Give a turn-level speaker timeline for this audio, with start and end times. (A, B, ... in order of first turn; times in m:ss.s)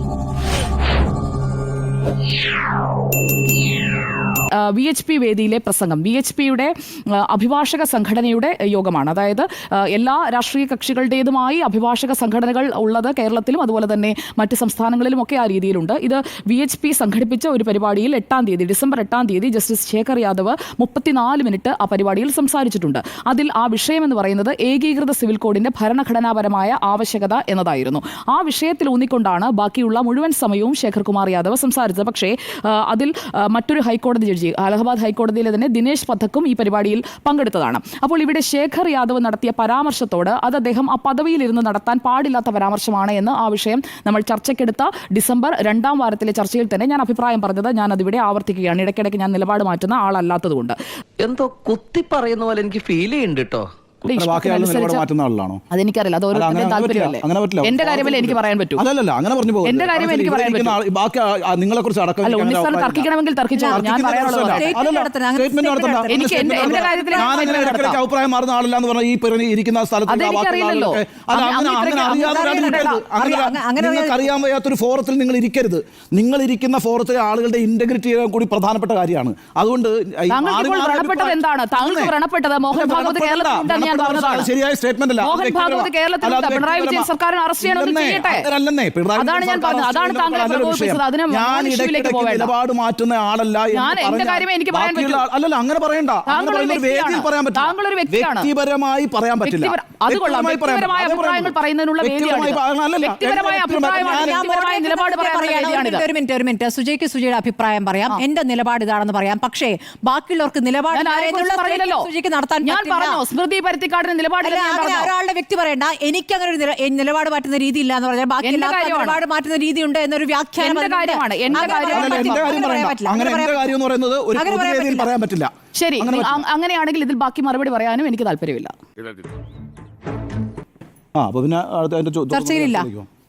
0:04.6-0:50.8 A
0:51.2-0:53.7 B
0:54.0-0:55.0 A
0:54.1-0:55.6 C
0:55.7-0:58.8 A
0:56.3-1:03.1 C
0:59.6-1:00.8 A
1:02.2-1:04.7 A
1:03.5-1:07.8 D
1:03.7-1:22.1 C
1:06.1-1:08.0 A
1:10.1-1:13.0 A
1:12.0-1:14.4 D
1:20.3-1:24.5 A
1:22.7-1:27.1 C
1:25.2-1:28.5 A
1:27.6-1:44.4 C
1:29.1-1:32.5 A
1:33.7-1:35.2 A
1:36.2-1:38.5 A
1:39.4-1:46.0 A
1:43.8-1:53.2 D
1:50.9-1:52.1 A
1:52.6-1:55.1 A
1:54.4-2:03.7 D
1:58.4-1:59.2 A
2:00.6-2:02.7 A
2:01.9-2:06.4 C
2:04.3-2:05.1 D
2:05.7-2:08.7 A
2:11.2-2:13.0 C
2:12.3-2:12.9 D